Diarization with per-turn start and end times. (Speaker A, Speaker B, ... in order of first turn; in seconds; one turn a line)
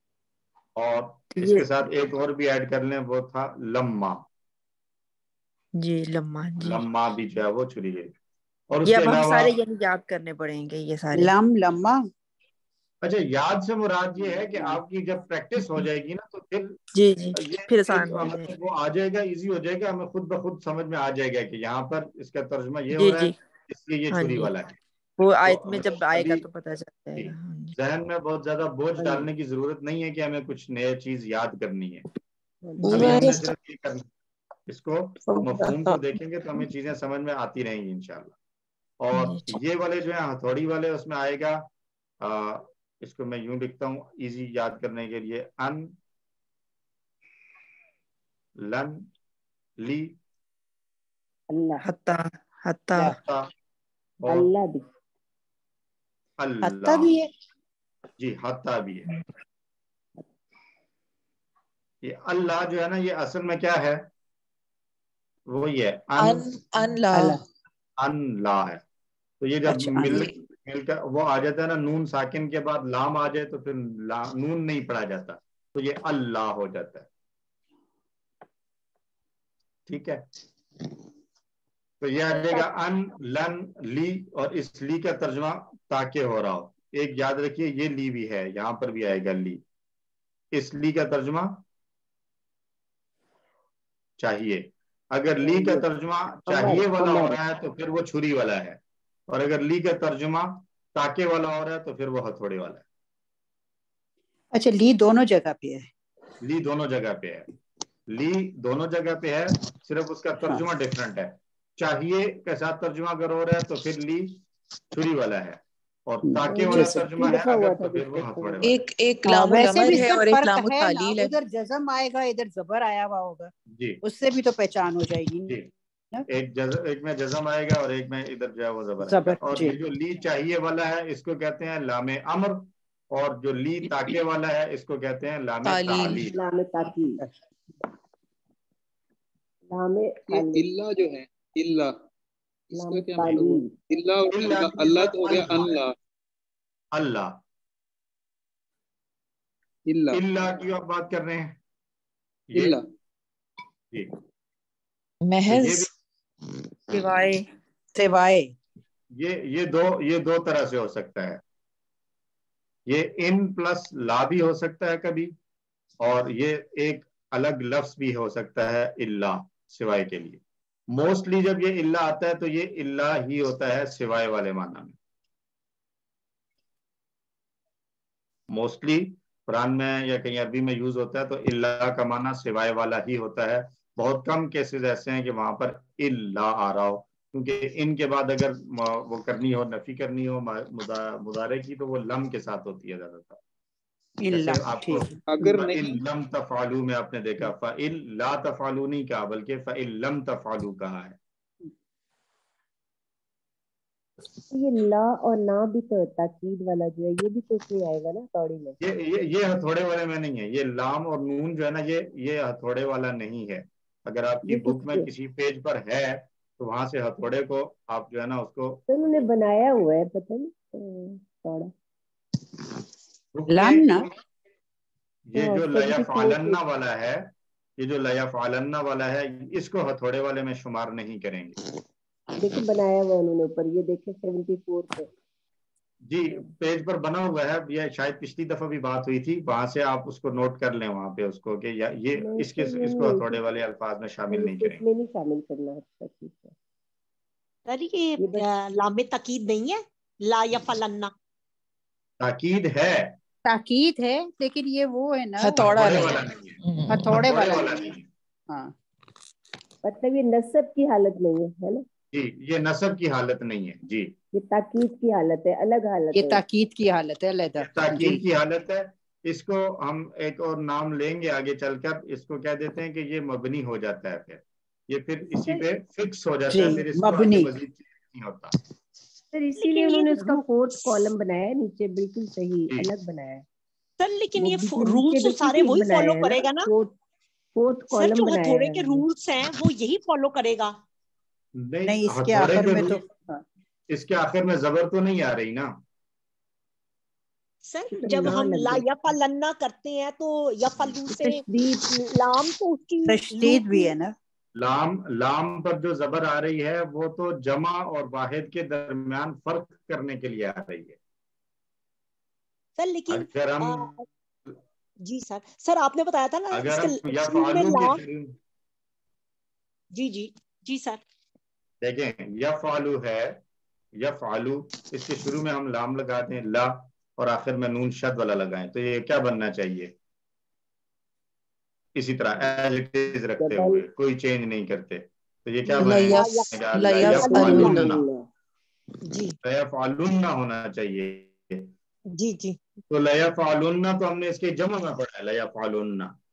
Speaker A: 0.8-4.2
Speaker B: 1.3-1.7
Speaker B: 5.8-6.8
Speaker A: 6.6-8.1
Speaker A: 8.7-9.6
Speaker B: 8.8-11.3
Speaker C: 11.1-12.0
Speaker A: 13.0-16.8
Speaker B: 16.9-18.6
Speaker A: 17.4-24.8
Speaker B: 22.9-23.3
Speaker B: 24.1-24.6
Speaker B: 25.2-27.8
Speaker A: 25.4-26.5
Speaker A: 27.2-32.1
Speaker D: 32.6-33.2
Speaker B: 32.8-33.6
Speaker A: 32.9-34.1
Speaker A: 34.7-38.4
Speaker B: 35.4-36.1
Speaker A: 39.0-41.7
Speaker B: 39.1-39.6
Speaker A: 42.2-46.0
Speaker A: 48.6-49.1
Speaker A: 49.8-50.2
Speaker D: 51.5-51.8
Speaker B: 51.8-53.2
Speaker A: 53.1-53.5
Speaker A: 54.2-54.5
Speaker D: 54.3-54.9
Speaker A: 56.4-57.1
Speaker C: 56.6-57.3
Speaker A: 58.2-59.1
Speaker A: 62.0-64.1
Speaker A: 65.5-66.5
Speaker E: 66.2-67.4
Speaker C: 67.1-67.4
Speaker A: 68.0-68.8
Speaker A: 69.4-77.1
Speaker C: 69.7-70.3
Speaker A: 79.9-80.2
Speaker A: 82.0-89.6
Speaker A: 90.5-91.6
Speaker A: 94.2-102.8
Speaker D: 95.4-95.8
Speaker D: 96.5-97.4
Speaker C: 104.5-105.9
Speaker A: 106.4-107.5
Speaker A: 108.1-114.4
Speaker A: 114.9-118.8
Speaker C: 116.2-117.1
Speaker D: 116.5-118.6
Speaker E: 118.6-121.3
Speaker C: 119.3-123.5
Speaker A: 123.7-124.0
Speaker C: 124.0-125.6
Speaker A: 126.3-136.4
Speaker C: 129.0-129.8
Speaker E: 135.6-136.3
Speaker D: 136.3-137.2
Speaker D: 139.7-140.7
Speaker F: 140.3-141.9
Speaker F: 142.7-145.9
Speaker D: 142.8-143.7
Speaker A: 144.3-145.8
Speaker A: 146.9-147.4
Speaker F: 149.9-150.2
Speaker A: 150.1-151.6
Speaker A: 152.5-152.8
Speaker F: 152.6-152.8
Speaker E: 155.2-155.9
Speaker A: 155.5-155.9
Speaker B: 156.9-157.4
Speaker C: 157.9-158.5
Speaker A: 159.2-161.4
Speaker A: 162.9-165.3
Speaker A: 166.0-175.0
Speaker A: 178.5-193.4
Speaker C: 194.2-195.5
Speaker A: 194.3-201.2
Speaker F: 195.3-196.0
Speaker D: 204.5-208.8
Speaker A: 208.8-218.9
Speaker D: 214.4-215.1
Speaker D: 218.9-221.7
Speaker A: 223.3-224.1
Speaker C: 223.5-224.1
Speaker A: 225.3-231.6
Speaker D: 225.4-226.6
Speaker D: 232.4-235.1
Speaker A: 236.1-244.8
Speaker D: 242.2-243.4
Speaker D: 244.3-246.5
Speaker G: 247.7-251.1
Speaker D: 248.2-248.5
Speaker A: 252.2-253.2
Speaker C: 253.4-256.1
Speaker E: 255.4-257.3
Speaker A: 255.6-256.6
Speaker C: 256.9-258.0
Speaker A: 257.1-258.1
Speaker C: 258.5-258.7
Speaker D: 259.8-261.9
Speaker A: 262.1-264.1
Speaker D: 264.3-266.4
Speaker C: 266.1-268.2
Speaker A: 267.6-278.6
Speaker D: 275.3-275.7
Speaker C: 276.5-277.5
Speaker D: 279.3-283.4
Speaker G: 279.6-280.4
Speaker G: 284.0-286.7
Speaker D: 284.4-286.9
Speaker D: 287.6-289.1
Speaker G: 287.9-290.8
Speaker A: 291.6-293.0
Speaker C: 291.9-293.4
Speaker A: 293.9-295.7
Speaker G: 297.7-303.9
Speaker D: 298.0-298.9
Speaker D: 301.1-302.1
Speaker C: 303.1-304.1
Speaker A: 304.6-311.0
Speaker G: 312.8-314.0
Speaker A: 313.1-314.0
Speaker G: 315.0-318.0
Speaker A: 316.5-318.4
Speaker G: 319.9-321.0
Speaker A: 321.8-323.4
Speaker A: 324.0-329.9
Speaker A: 332.0-338.0
Speaker D: 333.4-333.8
Speaker E: 335.8-337.9
Speaker G: 335.8-337.8
Speaker D: 337.2-338.3
Speaker G: 339.1-339.3
Speaker A: 339.4-341.7
Speaker G: 342.1-342.6
Speaker A: 342.9-346.1